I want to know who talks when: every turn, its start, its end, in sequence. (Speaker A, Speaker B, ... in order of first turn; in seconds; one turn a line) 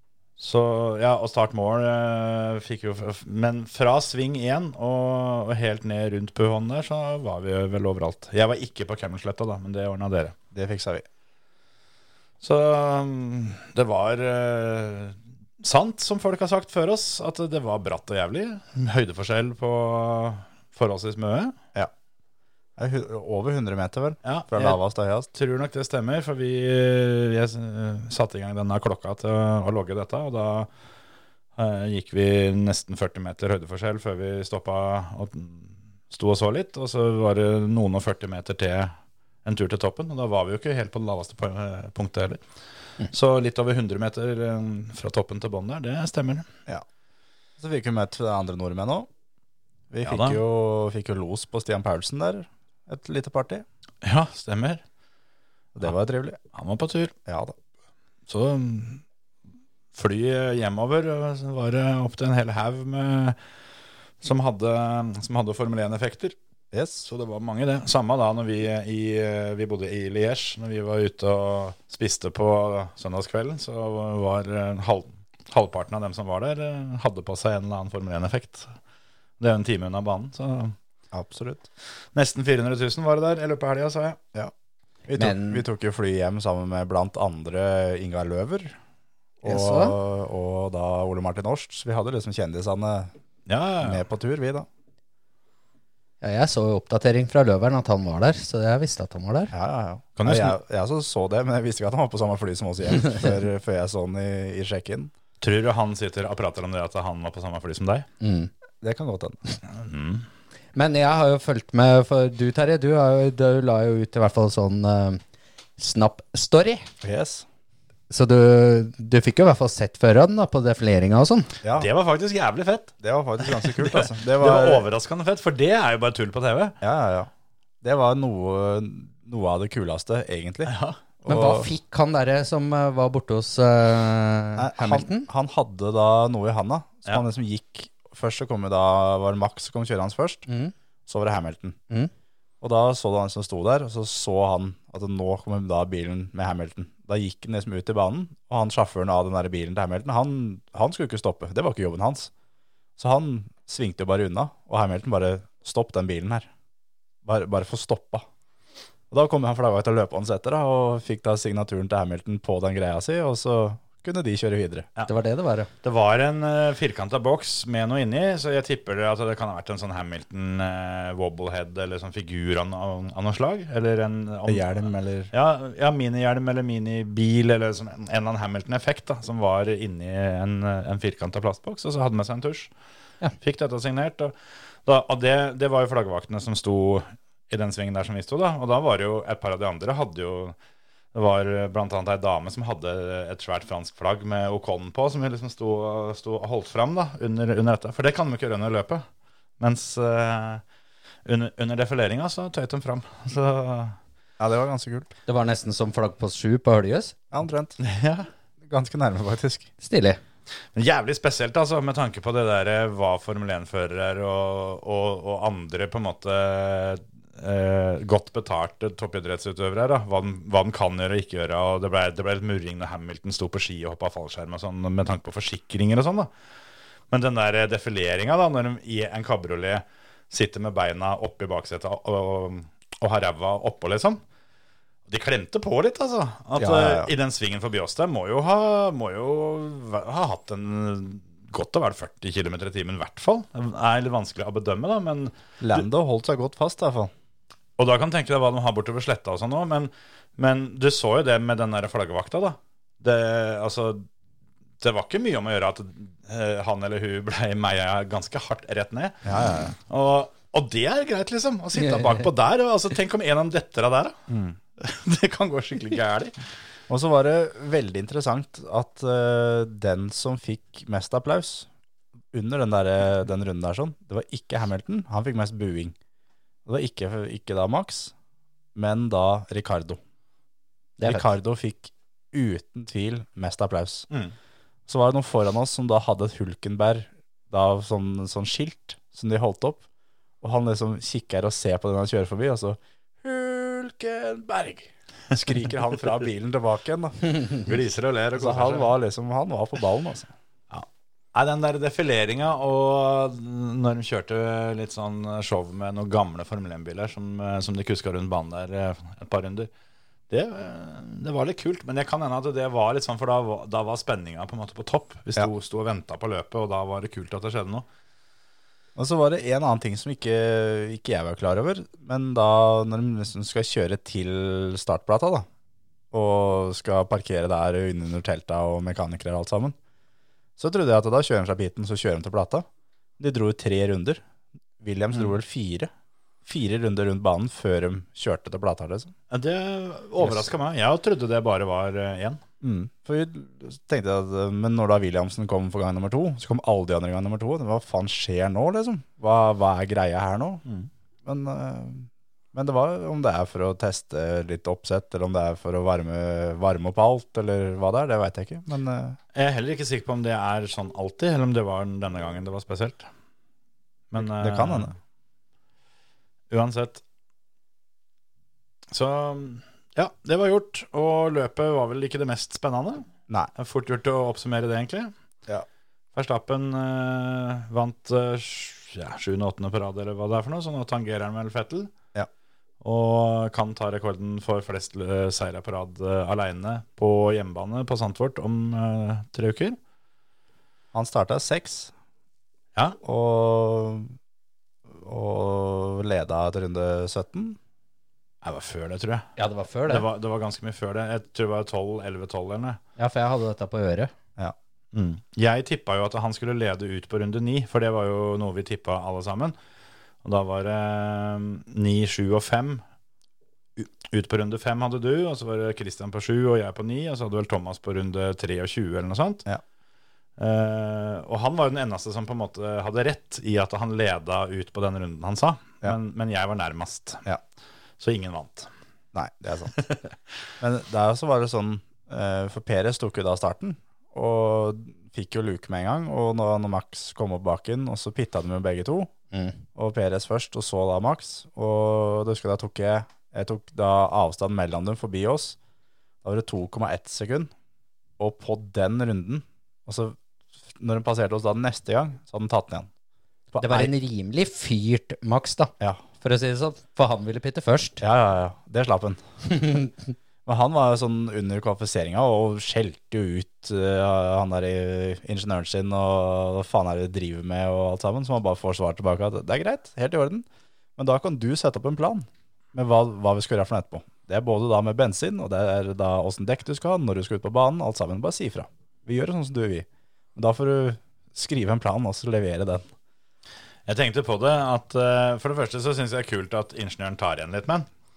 Speaker A: 0.4-10.3
Speaker B: 10.5-11.1
Speaker A: 12.4-21.6
Speaker B: 22.8-25.3
Speaker A: 24.2-24.8
Speaker A: 25.3-30.7
Speaker A: 31.6-38.9
Speaker A: 39.5-42.4
Speaker A: 43.1-46.5
Speaker B: 47.6-49.1
Speaker B: 49.9-53.6
Speaker A: 50.0-50.4
Speaker A: 54.0-54.8
Speaker B: 55.8-56.4
Speaker A: 56.5-57.1
Speaker B: 57.3-57.5
Speaker A: 58.3-59.0
Speaker A: 60.0-63.4
Speaker A: 64.2-66.4
Speaker B: 66.7-67.1
Speaker A: 67.0-78.7
Speaker A: 79.4-80.8
Speaker B: 81.1-81.7
Speaker A: 82.1-84.2
Speaker B: 85.1-88.8
Speaker C: 85.2-85.6
Speaker B: 89.4-93.1
Speaker C: 89.5-90.0
Speaker A: 93.5-94.0
Speaker B: 93.8-94.7
Speaker C: 96.2-99.5
Speaker B: 99.5-105.1
Speaker A: 100.2-100.6
Speaker A: 105.4-108.1
Speaker C: 108.2-108.5
Speaker B: 108.8-109.6
Speaker A: 109.7-110.2
Speaker C: 110.8-115.2
Speaker C: 115.8-116.9
Speaker B: 117.0-117.5
Speaker C: 118.1-121.5
Speaker B: 121.6-121.9
Speaker A: 121.8-122.9
Speaker B: 123.0-124.9
Speaker A: 123.5-126.8
Speaker B: 126.8-127.3
Speaker B: 127.8-131.7
Speaker A: 130.7-131.0
Speaker C: 131.3-135.3
Speaker B: 134.6-140.5
Speaker C: 140.5-140.7
Speaker B: 141.1-141.8
Speaker B: 142.6-152.3
Speaker B: 153.0-156.5
Speaker B: 157.2-158.2
Speaker B: 159.1-164.9
Speaker C: 165.1-165.7
Speaker A: 165.8-174.8
Speaker B: 174.5-175.3
Speaker A: 175.3-182.7
Speaker A: 183.4-184.3
Speaker A: 184.8-190.6
Speaker A: 191.1-199.0
Speaker A: 199.6-200.6
Speaker A: 201.3-204.0
Speaker B: 204.4-205.1
Speaker C: 205.3-207.2
Speaker B: 207.3-207.8
Speaker A: 207.8-208.3
Speaker B: 208.7-209.7
Speaker C: 209.8-210.2
Speaker A: 210.8-226.3
Speaker A: 227.1-234.2
Speaker A: 235.1-245.8
Speaker B: 236.6-237.1
Speaker B: 245.6-247.1
Speaker A: 247.8-254.1
Speaker A: 254.8-259.2
Speaker B: 259.2-259.8
Speaker A: 259.9-266.3
Speaker B: 266.9-271.7
Speaker B: 272.3-276.0
Speaker B: 276.7-278.1
Speaker B: 278.8-280.0
Speaker C: 281.0-281.2
Speaker B: 281.0-284.1
Speaker B: 284.9-289.8
Speaker B: 290.4-297.7
Speaker A: 297.6-298.9
Speaker B: 298.4-300.3
Speaker A: 300.7-309.7
Speaker A: 310.3-317.9
Speaker B: 319.0-325.5
Speaker B: 326.1-329.8
Speaker B: 330.6-332.7
Speaker B: 333.2-334.2
Speaker B: 334.8-335.9
Speaker B: 336.4-339.1
Speaker A: 339.3-342.4
Speaker B: 340.2-340.5
Speaker B: 342.6-350.6
Speaker B: 351.2-359.2
Speaker A: 359.3-363.1
Speaker A: 364.1-364.9
Speaker B: 364.2-364.9
Speaker A: 366.5-367.0
Speaker A: 368.9-375.1
Speaker A: 376.2-381.9
Speaker A: 382.8-389.8
Speaker B: 390.9-391.9
Speaker B: 393.0-394.1
Speaker B: 394.9-397.6
Speaker A: 398.4-399.3
Speaker C: 399.4-400.1
Speaker A: 399.9-402.8
Speaker C: 403.0-404.1
Speaker A: 404.9-409.6
Speaker A: 410.2-412.8
Speaker A: 413.8-419.4
Speaker A: 420.4-427.3
Speaker A: 428.0-428.7
Speaker B: 429.1-429.7
Speaker A: 429.8-430.1
Speaker B: 430.6-439.1
Speaker B: 439.8-445.6
Speaker B: 446.2-447.5
Speaker B: 448.2-450.2
Speaker B: 450.8-452.9
Speaker B: 453.5-453.9
Speaker C: 453.6-458.0
Speaker B: 458.0-459.2
Speaker C: 459.5-459.9
Speaker B: 460.5-470.5
Speaker B: 471.0-482.9
Speaker A: 483.9-487.9